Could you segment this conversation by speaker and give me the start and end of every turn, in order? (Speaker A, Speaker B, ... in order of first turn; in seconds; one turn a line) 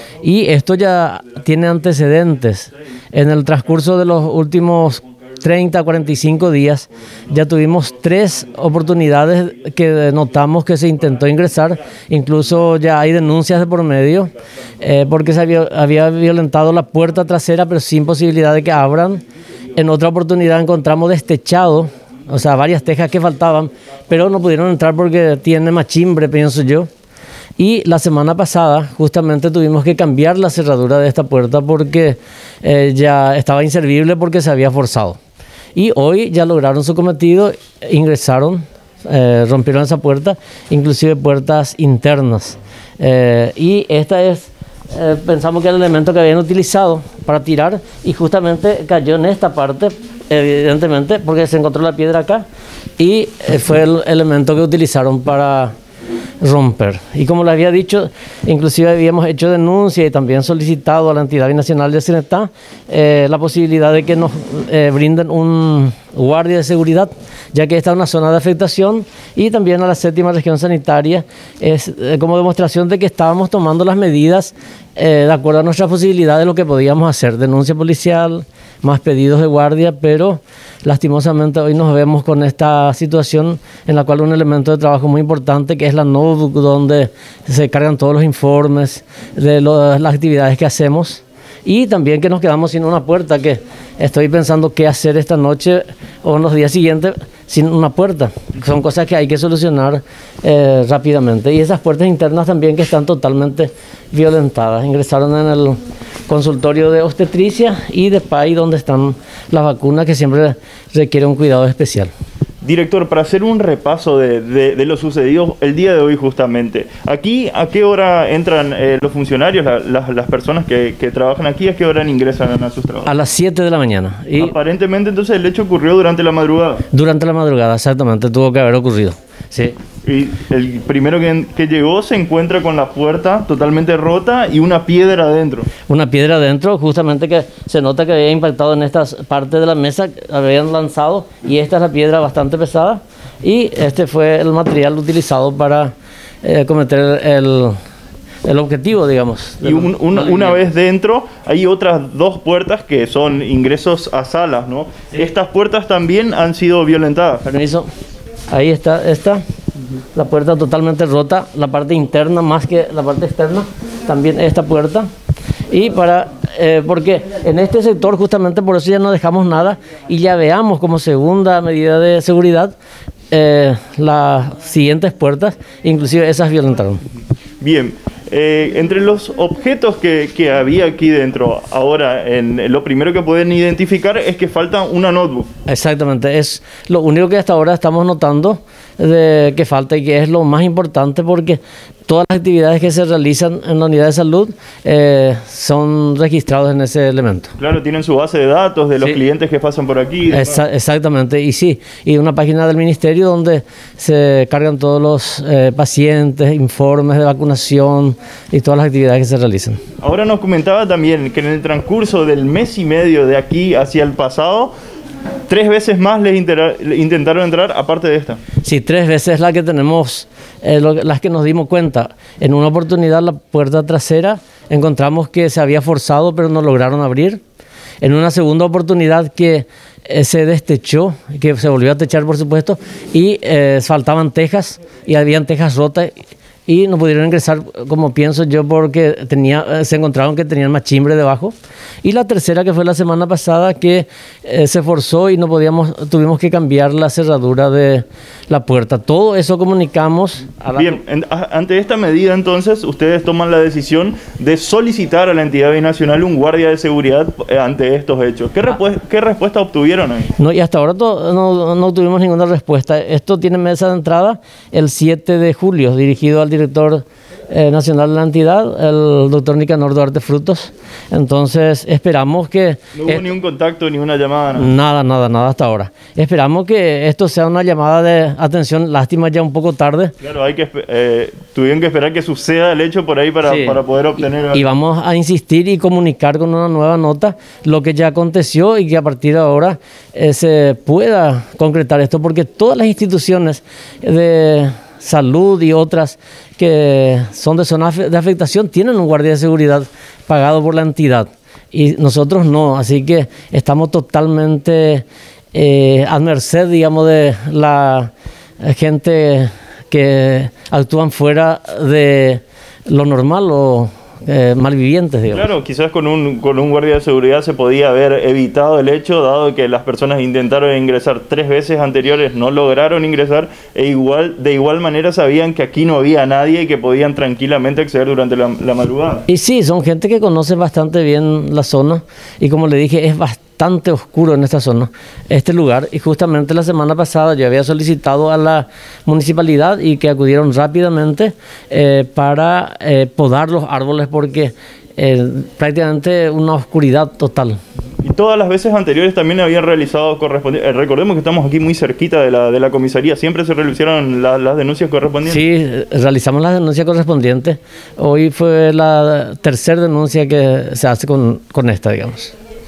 Speaker A: 0.2-19.2
Speaker A: 19.7-26.9
Speaker A: 27.6-35.2
Speaker A: 35.7-52.4
Speaker A: 53.0-55.7
Speaker A: 56.4-112.1
Speaker B: 112.6-123.1
Speaker A: 123.0-124.5
Speaker B: 124.4-126.9
Speaker A: 126.9-129.8
Speaker B: 130.0-135.7
Speaker A: 135.9-145.9
Speaker A: 146.4-147.8
Speaker A: 148.4-150.6
Speaker B: 149.6-157.5
Speaker A: 157.4-157.9
Speaker A: 158.5-159.4
Speaker A: 160.1-165.1
Speaker A: 165.7-172.7
Speaker A: 173.3-177.0
Speaker B: 177.6-185.5
Speaker A: 185.7-197.5
Speaker B: 197.6-200.6
Speaker A: 200.3-209.8
Speaker B: 210.0-214.7
Speaker B: 215.5-218.4
Speaker A: 218.6-227.4
Speaker A: 228.0-236.1
Speaker A: 236.7-250.9
Speaker B: 250.7-260.3
Speaker A: 260.4-273.2
Speaker B: 272.9-274.7
Speaker A: 274.6-280.1
Speaker B: 280.2-284.6
Speaker A: 283.4-283.8
Speaker A: 284.5-315.5
Speaker B: 315.3-329.2
Speaker A: 329.3-347.6
Speaker B: 348.0-355.4
Speaker A: 355.2-362.3